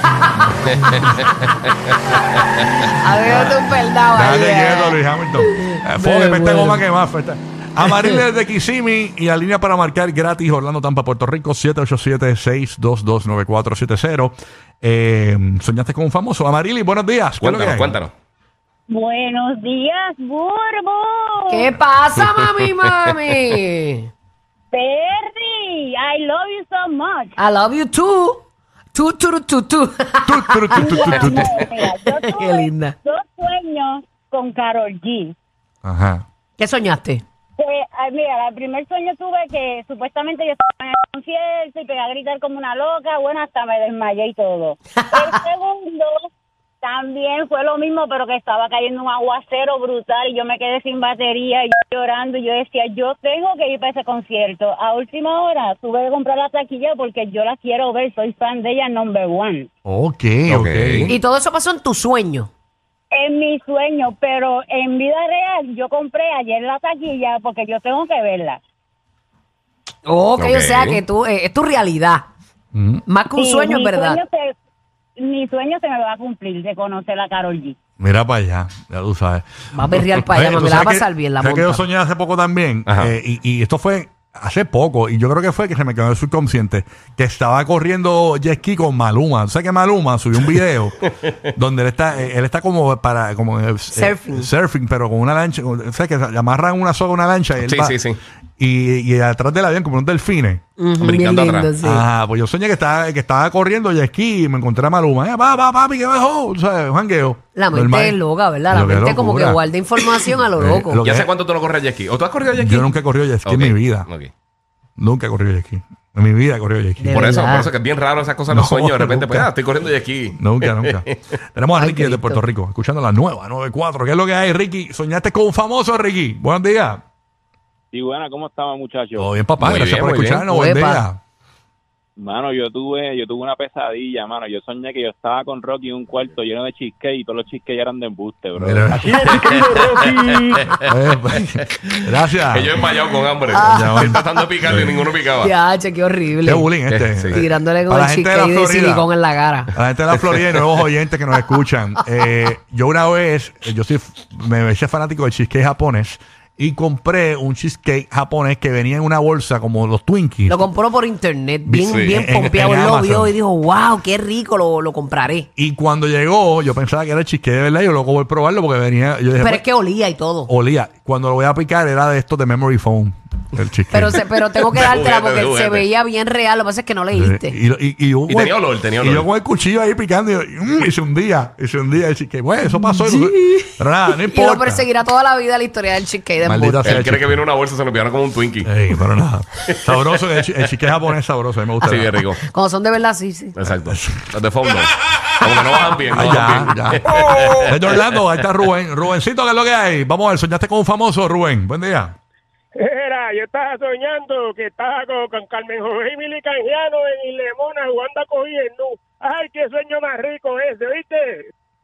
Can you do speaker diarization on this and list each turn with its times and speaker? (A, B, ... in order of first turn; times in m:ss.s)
0:02.3-0:06.8 A
0:03.1-0:18.0 B
0:07.8-0:08.2 A
0:17.4-0:18.1 C
0:18.9-0:21.7 D
0:21.5-0:24.1 A
0:24.7-0:27.4 D
0:27.4-0:28.4 A
0:28.9-0:32.9 A
0:30.2-0:31.6 B
0:30.8-0:35.3 D
0:35.8-0:36.2 B
0:36.6-0:37.2 A
0:37.6-0:46.1 D
0:46.8-0:59.7 D
0:59.8-1:01.1 B
1:00.5-1:01.1 C
1:01.1-1:02.5 A
1:03.1-1:08.6 D
1:10.0-1:12.2 A
1:10.4-1:11.0 C
1:12.7-1:13.0 B
1:13.1-1:14.2 A
1:13.3-1:14.5 D
1:15.2-1:17.8 D
1:18.0-1:19.4 B
1:19.7-1:21.8 A
1:20.3-1:38.0 B
1:22.9-1:23.1 C
1:33.9-1:34.5 A
1:37.6-1:38.2 C
1:38.6-1:40.6 B
1:40.8-1:42.0 A
1:41.0-1:41.7 C
1:41.8-1:49.6 B
1:47.6-1:51.0 A
1:50.6-1:51.3 B
1:51.0-1:54.3 C
1:52.5-1:54.1 B
1:55.0-1:57.2 B
1:57.0-1:57.7 A
1:57.1-2:01.2 C
1:58.5-1:59.5 B
2:00.3-2:07.0 B
2:01.7-2:02.4 A
2:07.9-2:09.3 E
2:09.2-2:11.2 B
2:09.6-2:10.4 C
2:10.4-2:11.0 A
2:12.2-2:20.7 E
2:18.5-2:19.3 B
2:19.2-2:20.6 C
2:19.8-2:20.6 F
2:20.9-2:22.8 B
2:22.5-2:25.5 C
2:23.5-2:24.1 A
2:23.5-2:25.0 B
2:25.4-2:26.7 A
2:26.4-2:29.1 B
2:26.9-2:27.4 C
2:27.3-2:29.7 A
2:29.7-2:40.6 B
2:40.5-2:45.5 A
2:41.6-2:43.3 B
2:41.9-2:42.2 C
2:45.6-2:49.6 B
2:49.4-2:50.5 A
2:50.5-2:54.2 B
2:53.9-2:57.6 A
2:54.7-2:55.8 C
2:57.1-3:04.8 B
2:58.3-2:59.3 C
3:02.7-3:06.9 A
3:06.4-3:07.4 B
3:06.8-3:08.7 C
3:08.6-3:12.2 B
3:11.8-3:12.4 C
3:12.4-3:13.6 A
3:13.6-3:18.0 C
3:13.8-3:14.3 B
3:16.1-3:22.2 B
3:22.8-3:31.5 F